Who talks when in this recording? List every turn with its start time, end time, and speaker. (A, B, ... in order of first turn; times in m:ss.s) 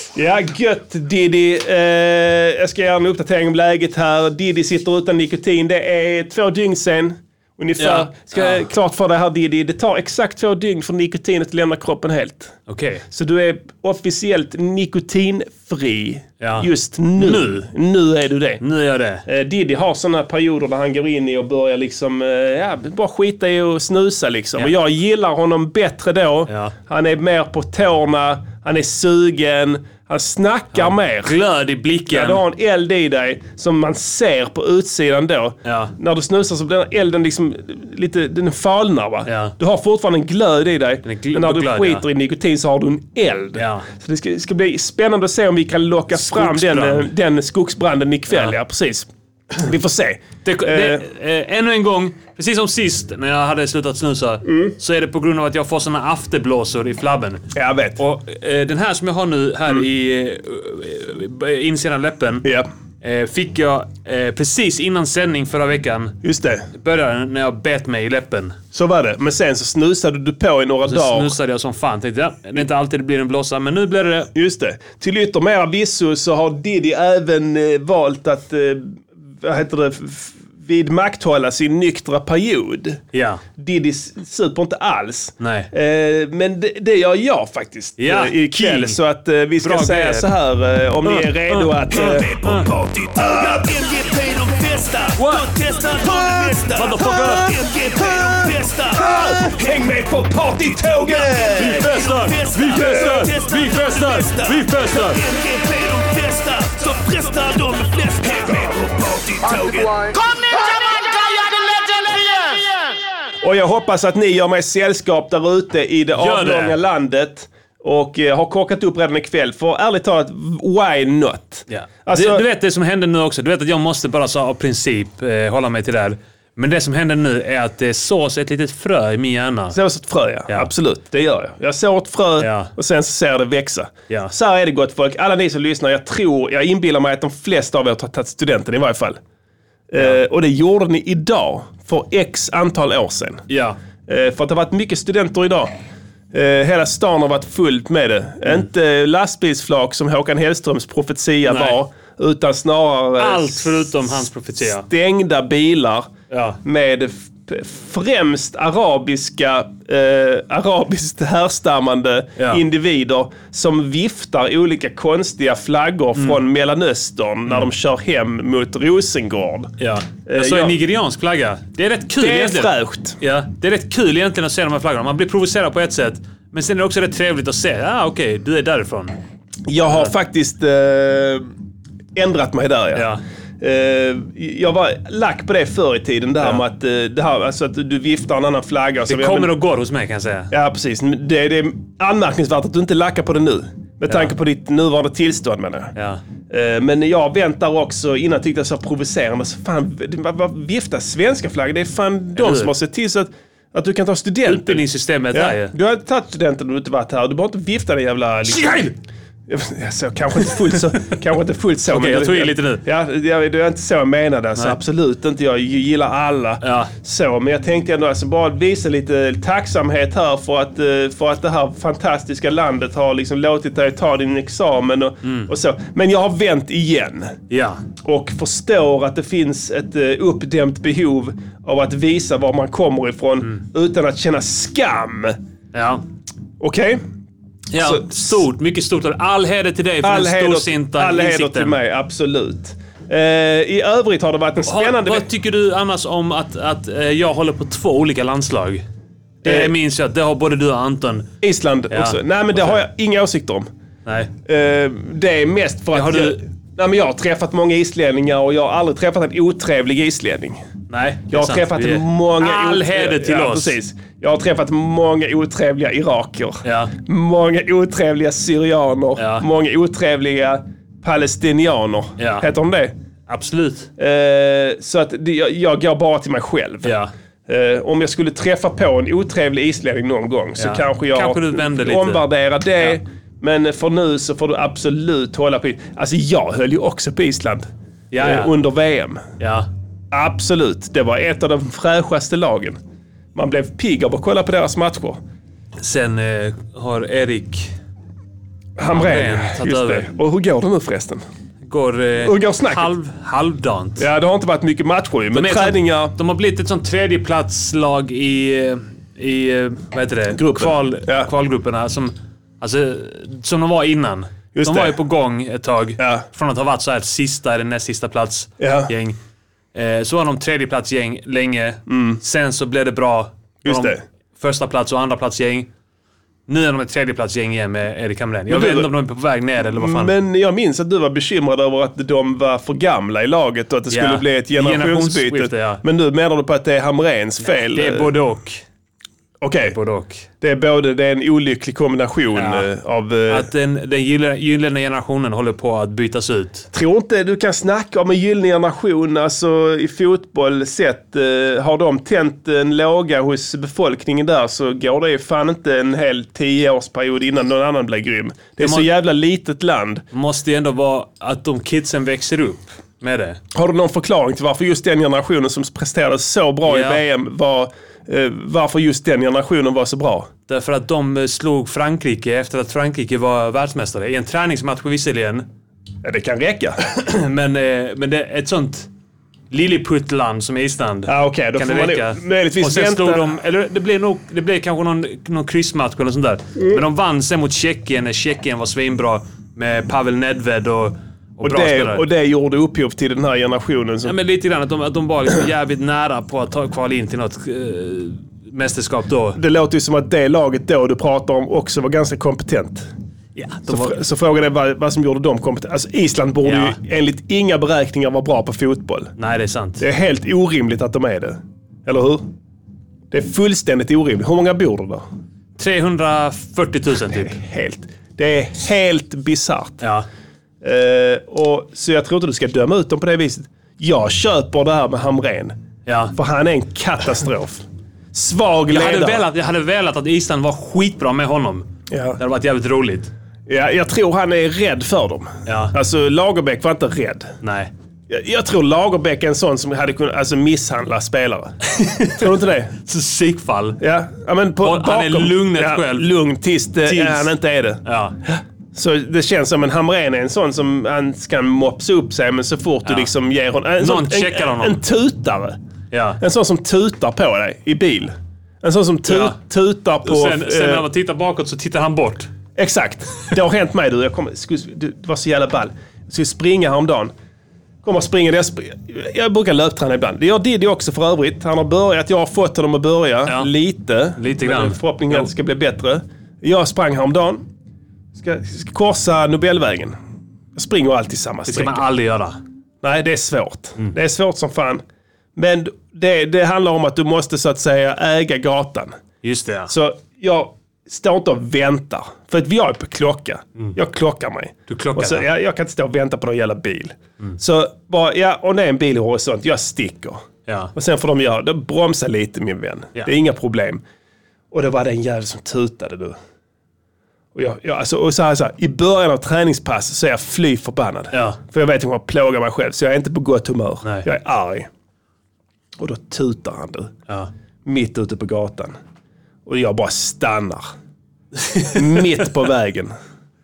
0:00.1-0:12.6 A
0:07.8-0:08.6 B
0:12.7-0:13.0 B
0:13.1-0:18.6 A
0:16.4-0:17.6 B
0:18.6-0:19.2 B
0:19.2-0:31.4 A
0:26.5-0:26.7 B
0:30.7-0:32.4 B
0:32.1-0:51.0 A
0:35.6-0:35.9 B
0:39.2-0:39.5 B
0:41.0-0:42.0 B
0:43.5-0:43.9 B
0:46.1-0:47.1 B
0:48.3-0:48.6 B
0:50.4-0:57.4 B
0:54.5-0:54.7 A
0:57.5-0:58.0 A
0:58.0-1:02.4 B
1:03.0-1:06.2 B
1:06.2-1:06.7 A
1:06.7-1:08.6 B
1:08.7-1:11.3 A
1:10.8-1:14.3 B
1:14.3-1:23.0 A
1:23.1-1:23.4 B
1:23.6-1:51.0 A
1:25.4-1:25.7 B
1:28.0-1:29.0 B
1:29.6-1:30.3 B
1:31.0-1:32.7 B
1:35.2-1:35.5 B
1:36.6-1:37.5 B
1:41.5-1:45.2 B
1:51.6-1:51.9 B
1:53.4-2:02.4 A
1:56.1-1:56.8 B
2:01.7-2:09.8 B
2:09.7-2:19.2 A
2:12.4-2:12.7 B
2:19.9-2:23.4 A
2:23.5-2:23.8 B
2:24.1-2:25.7 A
2:26.3-2:34.0 A
2:31.4-2:31.8 B
2:33.2-2:34.9 B
2:34.6-2:36.1 A
2:36.3-2:36.6 B
2:36.6-2:49.7 A
2:42.4-2:42.6 B
2:49.8-2:59.2 B
2:50.2-2:50.8 A
2:52.2-2:53.2 A
2:59.7-3:01.5 A
3:02.1-3:09.5 A
3:02.9-3:03.2 B
3:09.1-3:10.5 B
3:10.5-3:15.9 A
3:16.0-3:16.2 B
3:16.5-3:28.9 A
3:22.4-3:22.7 B
3:24.4-3:25.7 B
3:28.5-3:28.9 B
3:29.5-3:47.4 A
3:31.8-3:32.8 B
3:36.6-3:36.9 B
3:45.2-3:45.5 B
3:47.5-3:47.8 B
3:48.0-3:55.4 A
3:55.7-3:56.0 B
3:56.6-3:57.0 A
3:57.7-4:01.8 B
3:57.8-3:58.3 A
4:00.0-4:05.2 A
4:04.6-4:08.8 B
4:09.4-4:11.3 B
4:09.4-4:09.7 A
4:11.4-4:13.7 A
4:11.9-4:12.8 B
4:14.0-4:14.3 B
4:14.4-4:20.6 A
4:15.9-4:16.4 B
4:20.9-4:23.8 B
4:21.3-4:32.9 A
4:26.6-4:26.9 B
4:29.2-4:29.4 B
4:32.2-4:32.5 B
4:33.3-4:33.9 B
4:34.0-4:36.9 A
4:36.8-4:37.1 B
4:37.5-4:47.7 A
4:40.6-4:42.2 B
4:48.1-4:48.5 B
4:48.2-4:49.2 A
4:49.4-4:49.7 B
4:50.1-4:52.8 A
4:53.3-4:55.2 A
4:55.8-4:57.7 B
4:58.8-5:01.2 A
4:58.9-5:00.1 B
5:01.6-5:04.1 B
5:02.2-5:02.9 A
5:04.0-5:06.1 A
5:05.3-5:19.2 B
5:10.4-5:11.3 A
5:14.5-5:14.9 A
5:16.0-5:16.2 A
5:18.6-5:18.9 A
5:19.7-5:25.7 B
5:21.9-5:22.2 A
5:23.6-5:24.0 A
5:26.5-5:30.1 B
5:28.5-5:28.9 A
5:29.6-5:38.1 A
5:33.9-5:35.8 B
5:37.4-5:38.6 B
5:39.4-5:39.8 A
5:39.7-5:40.2 B
5:40.4-5:43.5 A
5:42.3-5:42.7 B
5:43.3-5:46.7 B
5:46.7-6:00.0 A
5:58.6-5:58.9 B
6:00.1-6:03.4 B
6:03.5-6:10.3 A
6:06.6-6:07.0 B
6:10.5-6:15.5 B
6:16.0-6:16.8 A
6:17.0-6:18.9 B
6:19.5-6:32.0 B
6:21.1-6:23.3 A
6:31.4-6:34.1 A
6:34.0-6:39.4 B
6:39.4-6:42.9 A
6:43.4-6:44.0 B
6:43.7-6:49.1 A
6:46.4-6:46.8 B
6:49.2-6:49.8 B
6:49.8-6:52.3 A
6:53.1-6:55.0 A
6:55.6-6:57.4 B
6:57.1-6:59.8 A
6:59.8-7:00.1 B
7:00.6-7:05.5 A
7:05.8-7:06.1 B
7:06.1-7:09.2 A
7:08.7-7:13.1 B
7:11.9-7:12.2 A
7:13.5-7:17.3 A
7:15.4-7:15.7 B
7:17.4-7:17.7 B
7:18.1-7:21.6 A
7:21.7-7:22.3 B
7:22.1-7:22.7 A
7:22.8-7:23.8 B
7:23.8-7:35.6 A
7:24.6-7:26.1 B
7:26.8-7:27.3 B
7:27.8-7:28.2 B
7:32.8-7:33.1 B
7:33.8-7:34.8 B
7:35.9-7:36.2 B
7:36.2-7:40.8 A
7:39.1-7:39.4 B
7:40.0-7:42.3 B
7:42.6-7:47.1 A
7:47.8-7:57.4 A
7:54.2-7:55.3 B
7:58.1-7:59.9 A
8:00.5-8:01.8 A
8:01.5-8:02.4 B
8:02.8-8:04.8 A
8:05.4-8:08.9 A
8:09.2-8:09.7 B
8:09.7-8:20.2 A
8:14.7-8:15.2 B
8:20.5-8:20.7 B
8:20.7-8:23.8 A
8:24.5-8:26.2 A
8:27.3-8:34.7 A
8:31.1-8:31.4 B
8:35.8-8:36.9 A
8:37.6-8:38.7 A
8:39.4-8:40.7 A
8:41.4-8:41.8 B
8:41.7-8:42.9 A